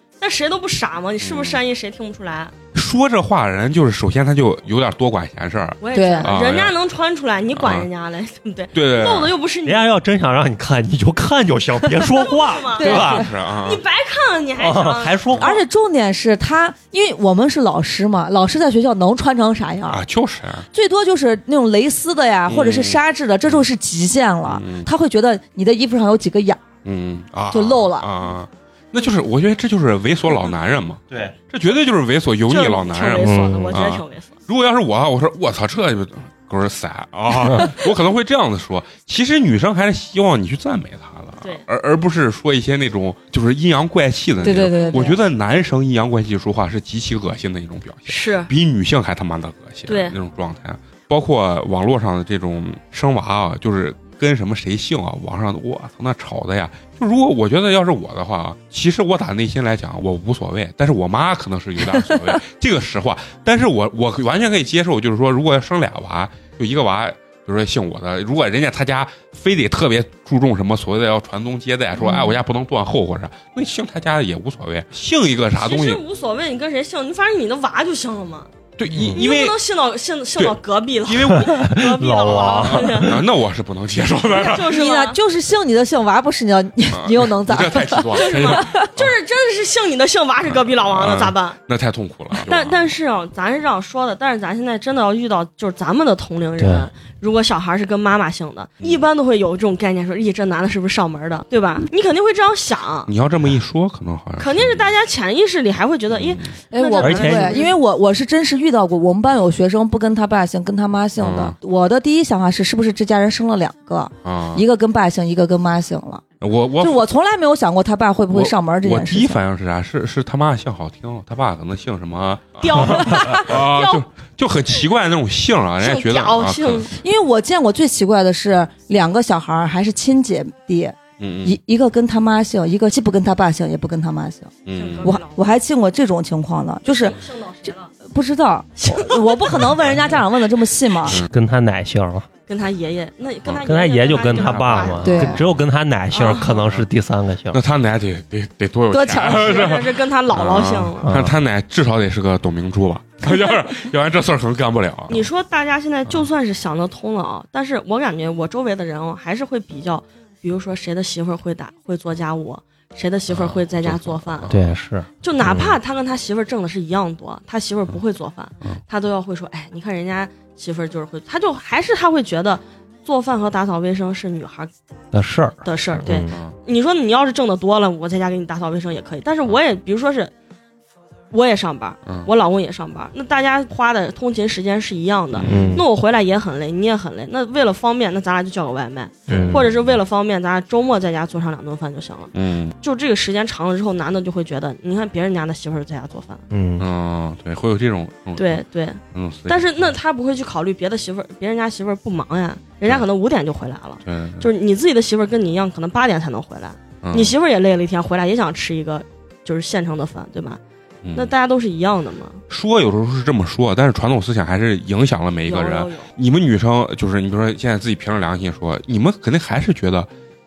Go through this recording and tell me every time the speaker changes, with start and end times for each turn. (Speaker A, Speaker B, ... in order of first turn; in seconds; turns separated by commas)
Speaker A: 0.2-2.5, Speaker B: 1.2-1.6, Speaker B: 2.7-6.8, Speaker A: 5.8-9.9, Speaker C: 5.9-6.3, Speaker B: 7.5-7.9, Speaker B: 8.7-9.3, Speaker D: 9.6-13.2, Speaker A: 12.0-15.5, Speaker C: 12.8-13.2, Speaker B: 12.9-13.8, Speaker D: 14.6-15.5, Speaker C: 15.4-20.0, Speaker B: 19.9-20.7, Speaker C: 20.7-26.6, Speaker B: 22.5-23.6, Speaker B: 24.5-24.9, Speaker B: 26.8-76.0, Speaker C: 27.5-28.1, Speaker A: 32.5-34.4, Speaker D: 33.2-33.8, Speaker C: 44.4-45.2, Speaker A: 44.7-45.1, Speaker A: 48.1-48.5, Speaker A: 49.9-50.1, Speaker A: 75.5-78.5, Speaker B: 78.8-79.6, Speaker D: 78.9-79.2, Speaker A: 79.0-83.2, Speaker B: 80.3-81.7, Speaker D: 81.4-83.1, Speaker B: 82.6-84.7, Speaker A: 84.3-85.2, Speaker C: 84.6-88.9, Speaker B: 86.9-89.1, Speaker A: 88.1-91.6, Speaker B: 90.5-92.9, Speaker A: 92.4-103.1, Speaker D: 96.6-96.9, Speaker B: 103.1-104.9, Speaker A: 104.4-107.8, Speaker B: 106.1-106.5, Speaker C: 106.7-116.2, Speaker D: 107.0-107.7, Speaker B: 111.2-111.5, Speaker B: 114.2-114.6, Speaker B: 116.4-117.0, Speaker C: 116.8-119.4, Speaker B: 118.3-126.9, Speaker A: 122.6-124.0, Speaker A: 125.8-126.9, Speaker C: 127.0-141.2, Speaker B: 131.2-131.6, Speaker B: 134.7-135.2, Speaker A: 134.7-135.6, Speaker A: 136.8-137.9, Speaker A: 138.8-140.3, Speaker B: 141.1-141.3, Speaker D: 141.2-142.3, Speaker A: 142.5-145.2, Speaker D: 143.6-147.6, Speaker B: 144.3-145.4, Speaker C: 145.0-145.4, Speaker A: 146.1-146.7, Speaker B: 146.6-146.8, Speaker B: 147.5-155.3, Speaker C: 148.9-149.6, Speaker A: 149.2-151.1, Speaker D: 151.0-151.3, Speaker A: 155.1-164.5, Speaker B: 163.3-164.8, Speaker D: 164.5-165.8, Speaker A: 165.2-174.7, Speaker D: 175.1-176.3, Speaker A: 175.6-180.3, Speaker B: 176.1-176.6, Speaker A: 181.3-196.4, Speaker B: 182.0-182.3, Speaker B: 185.3-185.8, Speaker D: 185.4-185.8, Speaker B: 189.3-189.7, Speaker D: 189.3-189.7, Speaker B: 192.3-192.7, Speaker D: 196.5-196.8, Speaker B: 196.8-199.9, Speaker A: 198.4-210.6, Speaker B: 204.0-204.4, Speaker B: 207.0-207.3, Speaker B: 211.0-211.3, Speaker A: 211.1-212.4, Speaker B: 212.5-220.1, Speaker A: 215.4-216.1